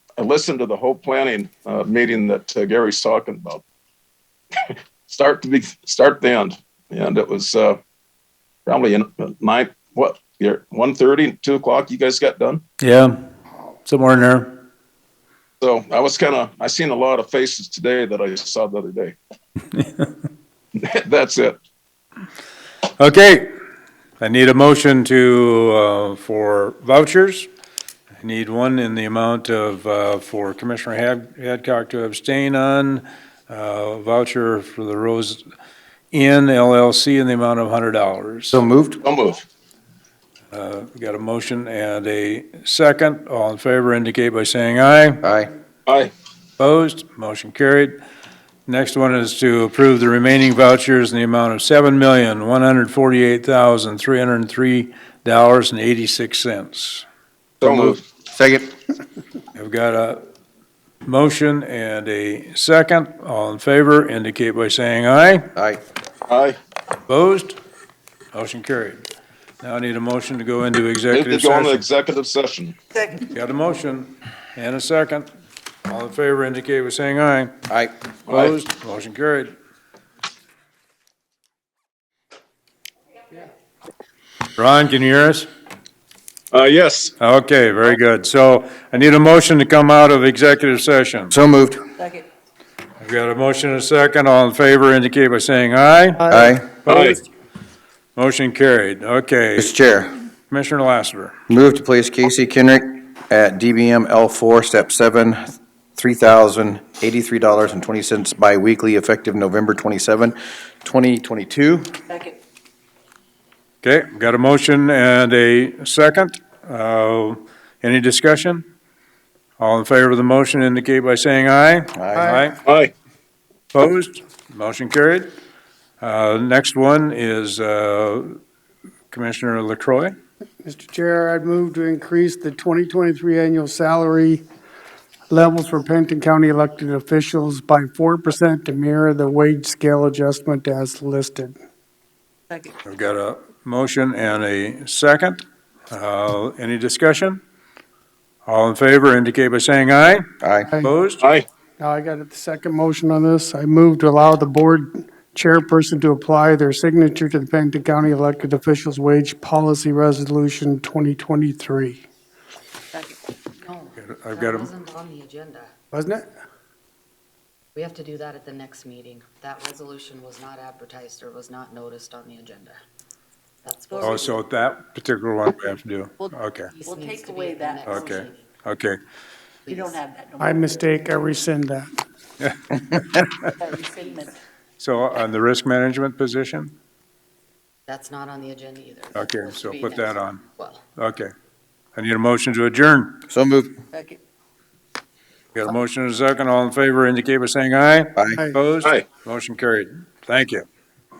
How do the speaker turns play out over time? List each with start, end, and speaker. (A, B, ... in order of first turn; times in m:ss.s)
0:00.2-0:03.6 A
0:04.6-0:07.8 A
0:08.6-0:12.6 A
0:12.8-0:13.2 B
0:13.8-0:14.5 B
0:15.6-0:19.2 A
0:19.8-0:20.1 B
0:20.7-0:21.6 A
0:23.0-0:23.5 B
0:24.2-0:27.5 B
0:28.2-0:35.4 B
0:36.1-0:38.6 B
0:38.5-0:39.0 C
0:39.0-0:39.4 A
0:40.5-0:45.2 B
0:45.2-0:45.5 C
0:46.6-0:48.0 B
0:48.7-0:57.0 B
0:57.6-0:58.8 C
0:59.5-1:00.2 B
1:01.0-1:05.5 B
1:05.6-1:05.8 C
1:06.3-1:06.6 A
1:07.1-1:07.6 B
1:08.3-1:09.0 B
1:09.6-1:11.8 B
1:11.1-1:12.8 A
1:13.3-1:15.3 B
1:15.9-1:17.6 B
1:17.7-1:17.9 C
1:18.3-1:19.5 B
1:24.6-1:25.5 B
1:26.5-1:27.1 A
1:27.2-1:31.4 B
1:31.3-1:31.8 C
1:32.0-1:32.2 D
1:33.0-1:37.1 B
1:36.3-1:36.7 C
1:38.2-1:39.7 B
1:39.6-1:40.2 C
1:40.5-1:41.4 B
1:41.5-1:51.9 C
1:52.1-1:52.4 D
1:53.8-1:58.6 B
1:59.6-2:02.6 B
2:01.9-2:02.3 C
2:02.1-2:02.4 E
2:02.6-2:02.9 A
2:03.7-2:05.3 B
2:06.0-2:08.4 B
2:09.1-2:10.1 B
2:10.6-2:14.4 E
2:15.3-2:21.6 E
2:22.8-2:25.4 B
2:25.9-2:27.4 B
2:28.4-2:30.3 B
2:30.4-2:30.7 C
2:30.8-2:31.3 B
2:31.8-2:42.0 E
2:43.6-2:45.7 F
2:44.0-2:44.7 B
2:45.9-2:46.3 E
2:47.7-2:52.8 F
2:53.6-2:54.4 F
2:54.0-2:56.7 B
2:56.2-2:58.2 D
2:56.7-2:58.5 F
2:57.9-2:59.0 B
2:59.6-3:00.0 F
2:59.7-3:00.9 D
3:00.4-3:01.9 E
3:02.4-3:02.7 B
3:03.6-3:04.4 D
3:04.8-3:06.7 B
3:07.9-3:10.8 F
3:09.2-3:10.4 B
3:11.0-3:11.3 B
3:12.0-3:13.2 B
3:13.3-3:13.8 C
3:13.9-3:14.2 D
3:15.5-3:20.6 B
3:18.2-3:18.4 C
3:18.3-3:18.6 E